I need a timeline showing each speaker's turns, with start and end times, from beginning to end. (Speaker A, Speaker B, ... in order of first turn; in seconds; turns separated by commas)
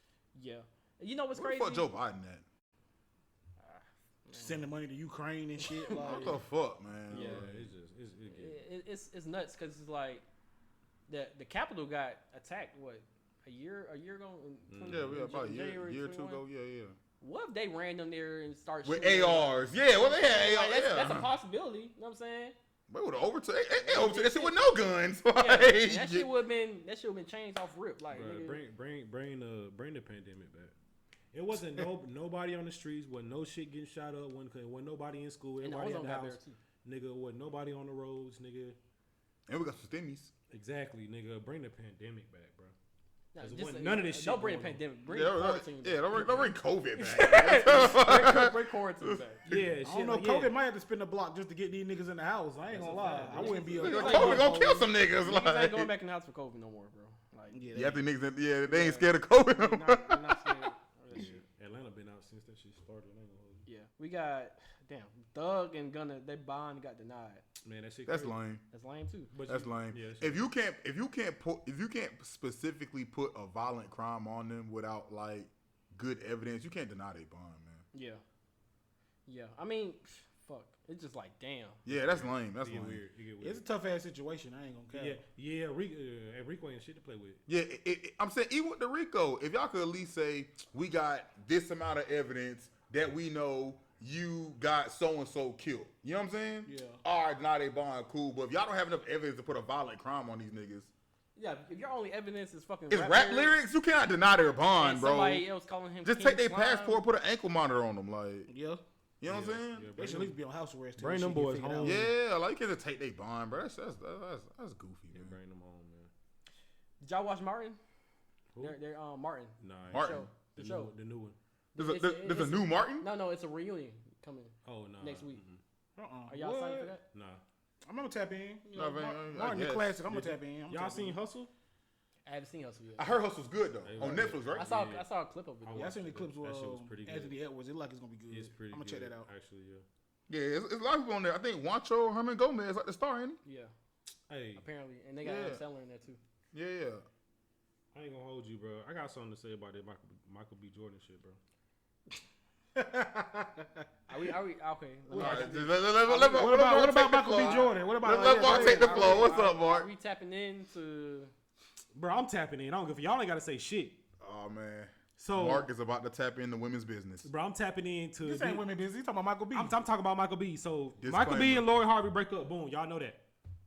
Speaker A: 0.3-1.9, Speaker B: 1.3-2.4, Speaker A: 3.6-4.7, Speaker C: 4.3-6.4, Speaker A: 5.6-6.3, Speaker B: 6.0-7.7, Speaker A: 7.1-7.5, Speaker D: 7.1-8.6, Speaker A: 8.3-10.2, Speaker A: 11.1-16.4, Speaker D: 14.7-15.2, Speaker B: 14.8-16.9, Speaker A: 17.2-22.5, Speaker B: 18.8-21.3, Speaker B: 22.9-26.3, Speaker A: 23.8-24.8, Speaker A: 25.3-28.6, Speaker D: 28.1-30.7, Speaker D: 31.3-38.8, Speaker A: 35.6-36.6, Speaker B: 39.5-40.3, Speaker D: 40.5-42.7, Speaker A: 43.3-49.4, Speaker D: 43.4-44.8, Speaker B: 45.1-49.7, Speaker D: 49.5-50.5, Speaker C: 49.8-54.9, Speaker D: 52.7-54.4, Speaker A: 53.4-54.6, Speaker B: 53.8-55.9, Speaker A: 55.2-57.6, Speaker C: 57.5-58.0, Speaker B: 57.7-61.3, Speaker A: 58.6-61.4, Speaker D: 61.1-63.6, Speaker A: 63.6-67.4, Speaker D: 67.6-68.3, Speaker B: 68.0-68.6, Speaker A: 68.7-69.3, Speaker D: 69.3-70.5, Speaker B: 69.5-77.8, Speaker A: 77.9-78.2, Speaker A: 79.2-81.8, Speaker B: 81.8-83.0, Speaker D: 81.9-83.6, Speaker C: 83.4-85.2, Speaker D: 84.9-87.4, Speaker B: 87.5-100.9, Speaker C: 96.6-97.0, Speaker A: 101.3-103.5, Speaker B: 102.9-105.5, Speaker A: 104.8-107.0, Speaker B: 106.0-108.5, Speaker C: 108.5-108.8, Speaker B: 109.2-109.9, Speaker D: 109.2-110.4, Speaker C: 110.0-112.1, Speaker D: 111.0-112.1, Speaker B: 111.8-115.3, Speaker D: 115.1-116.1, Speaker A: 117.0-117.8, Speaker A: 118.6-120.9, Speaker D: 119.6-121.3, Speaker B: 119.9-120.2, Speaker A: 121.7-125.4, Speaker B: 121.8-123.1, Speaker D: 124.6-125.6, Speaker C: 126.0-126.9, Speaker A: 126.3-127.0, Speaker D: 127.1-127.4, Speaker C: 127.8-131.2, Speaker B: 128.7-130.2, Speaker D: 130.1-131.5, Speaker A: 132.2-133.1, Speaker B: 133.0-134.8, Speaker D: 133.8-135.0, Speaker C: 134.0-134.3, Speaker A: 134.5-135.9, Speaker D: 135.6-137.3, Speaker C: 135.7-139.3, Speaker D: 138.3-139.8, Speaker B: 140.3-143.4, Speaker A: 143.4-143.7, Speaker D: 144.3-144.6, Speaker A: 144.6-146.2, Speaker B: 145.2-145.6, Speaker B: 146.5-147.0, Speaker D: 147.9-151.4, Speaker C: 152.7-153.7, Speaker A: 154.1-156.5, Speaker C: 155.1-155.5, Speaker B: 155.1-159.9, Speaker C: 156.3-159.4, Speaker A: 158.2-161.3, Speaker D: 161.9-164.0, Speaker B: 164.2-167.3, Speaker D: 165.2-165.7, Speaker D: 167.2-168.6, Speaker C: 168.2-169.8, Speaker D: 169.5-173.2, Speaker B: 171.0-171.7